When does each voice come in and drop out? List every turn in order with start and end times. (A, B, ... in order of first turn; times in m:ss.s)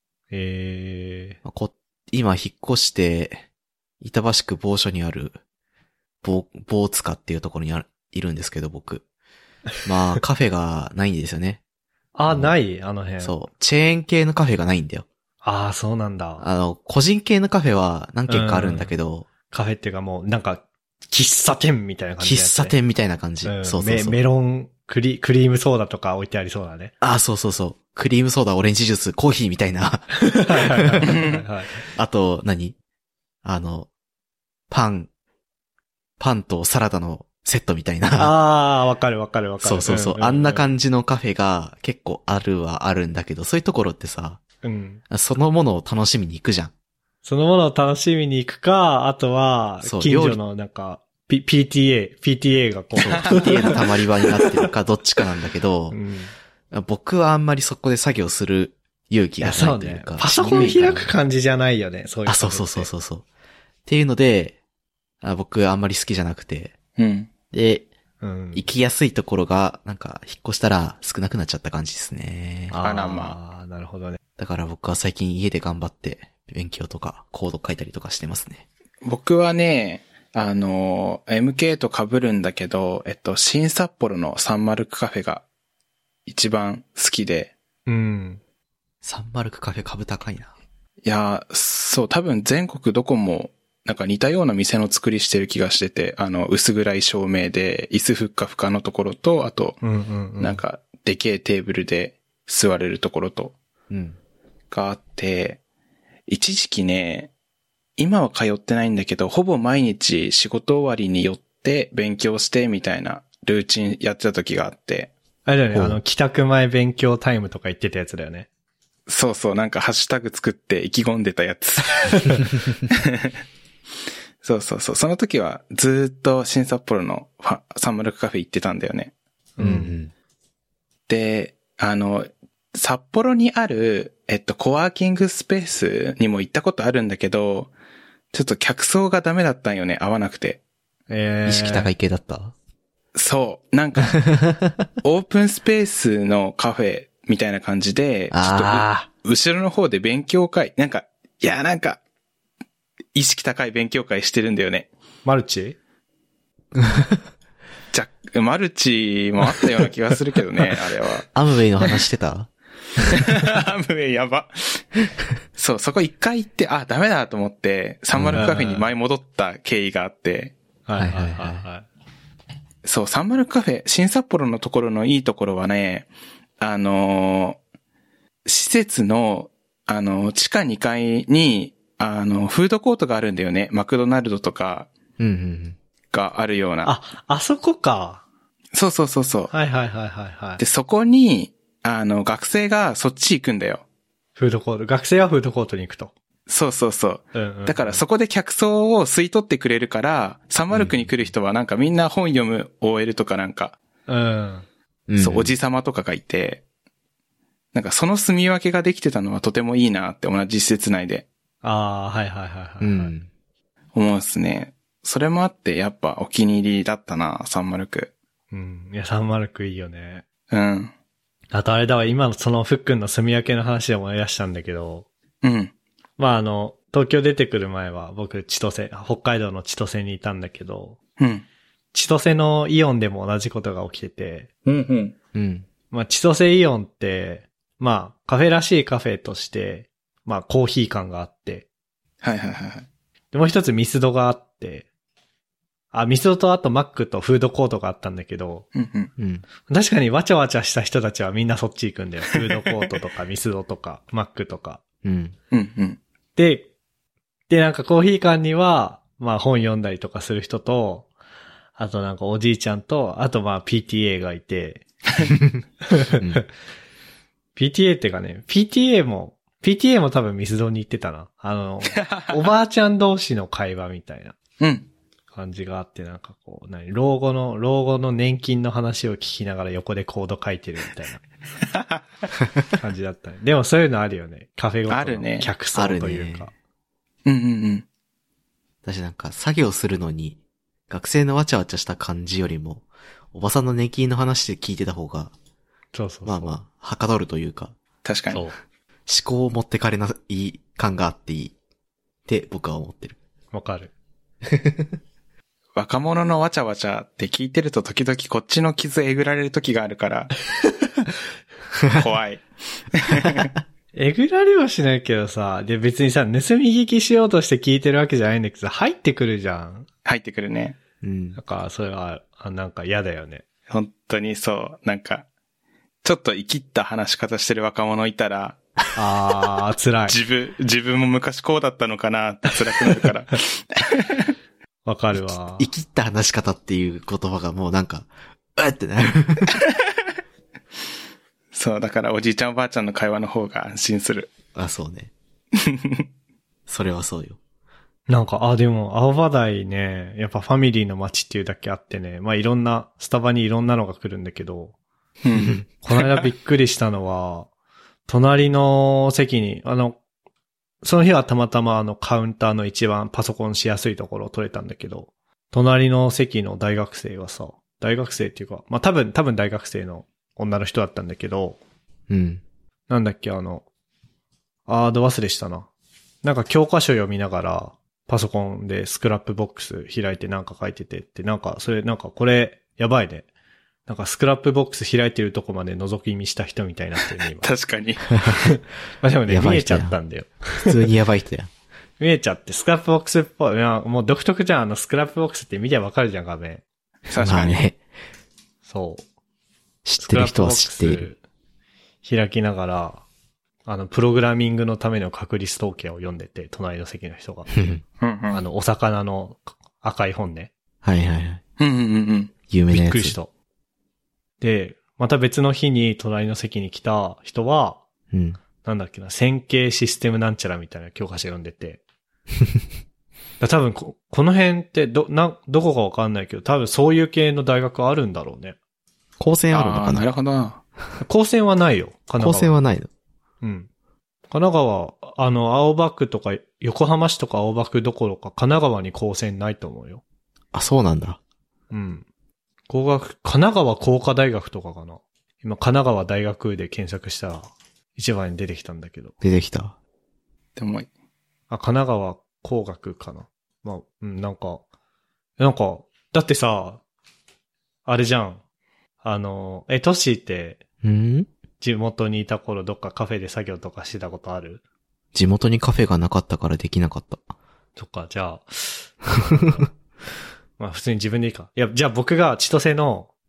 0:00.3-0:01.4 A
0:01.4-0:03.4 B
0:04.0-0:05.4 B
0:06.2-0:09.0 B
0:09.8-0:11.6 B
0:12.1-0:13.3 A
0:12.3-0:12.6 B
0:13.2-0:15.0 B
0:15.4-0:16.4 A
0:16.4-0:19.3 B
0:18.3-0:18.9 A
0:19.5-0:22.8 A
0:22.2-0:24.2 B
0:23.4-0:26.9 A
0:27.0-0:31.2 B
0:30.2-0:31.8 A
0:31.1-0:31.4 C
0:31.9-0:32.8 B
0:33.4-0:33.9 B
0:34.7-0:35.1 B
0:36.2-0:38.3 B
0:38.1-0:40.6 A
0:39.6-0:44.4 B
0:44.6-0:45.0 A
0:45.1-0:46.7 B
0:47.2-0:53.7 A
0:49.8-0:50.4 B
0:53.0-0:56.0 B
0:55.9-0:56.3 A
0:56.7-1:01.1 B
0:59.4-1:02.9 A
1:02.2-1:03.2 B
1:03.8-1:04.6 B
1:05.2-1:06.8 B
1:07.0-1:07.3 C
1:07.5-1:07.9 B
1:08.2-1:08.6 A
1:08.5-1:12.8 B
1:12.7-1:14.2 A
1:12.8-1:13.3 C
1:14.4-1:18.6 B
1:19.0-1:25.4 C
1:26.2-1:27.5 C
1:27.9-1:28.4 A
1:29.0-1:30.5 B
1:31.0-1:39.8 C
1:39.8-1:40.6 A
1:40.4-1:43.6 C
1:43.9-1:44.2 B
1:44.7-1:45.6 C
1:46.3-1:47.3 C
1:48.0-1:55.1 C
1:55.4-1:58.5 A
1:55.7-1:56.0 B
1:59.1-2:03.3 C
2:04.4-2:09.1 C
2:09.6-2:09.9 A
2:09.6-2:10.1 B
2:11.1-2:17.7 C
2:18.3-2:20.6 C
2:21.1-2:21.9 A
2:21.4-2:22.5 B
2:23.1-2:24.2 C
2:24.2-2:24.8 B
2:25.0-2:32.0 C
2:28.3-2:29.0 B
2:33.1-2:34.9 C
2:35.2-2:35.8 A
2:36.8-2:37.2 B
2:37.9-2:41.2 C
2:41.3-2:42.5 B
2:43.1-2:44.8 C
2:45.6-2:50.5 C
2:48.1-2:48.5 B
2:48.4-2:48.9 A
2:50.8-2:51.8 A
2:50.9-2:51.6 B
2:52.8-2:56.1 C
2:56.6-2:57.6 C
2:58.4-3:04.9 C
3:05.2-3:05.8 B
3:06.1-3:06.9 C
3:06.8-3:08.2 A
3:08.7-3:09.5 C
3:09.5-3:10.6 A
3:10.6-3:13.8 C
3:14.4-3:16.1 A
3:16.5-3:23.8 C
3:17.3-3:18.0 A
3:24.1-3:24.7 A
3:25.1-3:25.5 B
3:25.2-3:26.6 C
3:27.7-3:31.3 C
3:31.6-3:33.1 A
3:32.8-3:33.3 B
3:33.9-3:38.1 C
3:38.5-3:40.2 A
3:40.5-3:40.9 C
3:41.5-3:45.1 A
3:45.4-3:45.7 C
3:46.2-3:51.0 A
3:51.2-3:51.4 C
3:51.9-3:54.5 A
3:54.6-3:55.1 C
3:55.3-3:55.7 B
3:55.9-4:01.7 A
4:02.2-4:02.8 C
4:03.3-4:04.9 A
4:05.9-4:08.6 A
4:08.7-4:09.1 C
4:09.2-4:09.4 B
4:09.7-4:14.8 A
4:15.0-4:15.3 B
4:15.5-4:16.0 C
4:16.4-4:16.7 A
4:17.5-4:21.1 A
4:21.8-4:24.8 A
4:25.9-4:26.4 A
4:26.2-4:26.4 B
4:27.6-4:34.3 A
4:31.9-4:32.3 C
4:34.6-4:34.9 C
4:35.3-4:41.2 A
4:42.8-4:46.5 A
4:44.9-4:45.5 C
4:45.7-4:46.5 B
4:47.2-4:47.8 C
4:48.8-4:55.3 B
4:55.9-4:56.6 A
4:56.2-4:57.7 B
4:58.0-4:58.4 C
4:58.3-4:58.6 A
4:59.1-5:01.5 B
5:02.2-5:03.2 B
5:03.5-5:03.9 A
5:04.5-5:04.9 B
5:05.8-5:10.3 C
5:11.9-5:13.5 C
5:13.9-5:19.9 A
5:20.0-5:20.8 C
5:21.0-5:21.4 B
5:21.4-5:23.4 A
5:23.7-5:25.2 C
5:26.0-5:28.6 C
5:29.0-5:30.2 A
5:30.1-5:34.3 C
5:34.8-5:35.7 A
5:35.2-5:39.5 B
5:41.5-5:44.3 C
5:44.5-5:45.1 B
5:45.6-5:46.0 C
5:46.6-5:47.4 B
5:48.1-5:54.8 A
5:55.2-5:56.0 C
5:55.8-5:57.5 A
5:58.1-6:00.0 A
6:00.8-6:11.6 A
6:12.1-6:12.4 B
6:12.9-6:13.6 A
6:14.7-6:15.7 A
6:16.2-6:23.3 A
6:23.8-6:27.5 A
6:27.4-6:28.1 C
6:28.3-6:30.8 A
6:29.3-6:30.0 B
6:30.6-6:31.5 B
6:32.0-6:36.6 A
6:37.1-6:37.6 C
6:37.2-6:37.8 B
6:38.6-6:39.0 A
6:39.8-6:41.1 B
6:40.0-6:41.2 A
6:42.0-6:43.0 A
6:43.6-6:47.5 A
6:47.5-6:47.8 B
6:48.0-6:48.4 C
6:48.3-6:50.5 A
6:50.8-6:51.4 B
6:51.6-6:52.3 C
6:52.5-6:53.2 B
6:52.7-6:53.3 A
6:54.4-6:57.8 A
6:58.1-6:58.4 B
6:58.6-7:01.8 A
7:03.4-7:08.6 A
7:09.2-7:10.0 B
7:09.5-7:10.6 C
7:11.0-7:12.5 A
7:12.2-7:12.9 B
7:13.4-7:13.7 A
7:14.3-7:20.0 A
7:20.5-7:21.2 B
7:21.7-7:22.0 A
7:22.7-7:29.1 A
7:29.2-7:29.8 B
7:30.6-7:30.9 C
7:31.5-7:34.6 A
7:35.4-7:36.8 A
7:37.8-7:38.4 A
7:39.0-7:40.6 A
7:40.8-7:41.3 B
7:41.6-7:44.6 A
7:45.1-7:47.2 B
7:47.8-7:49.1 A
7:50.6-7:53.1 A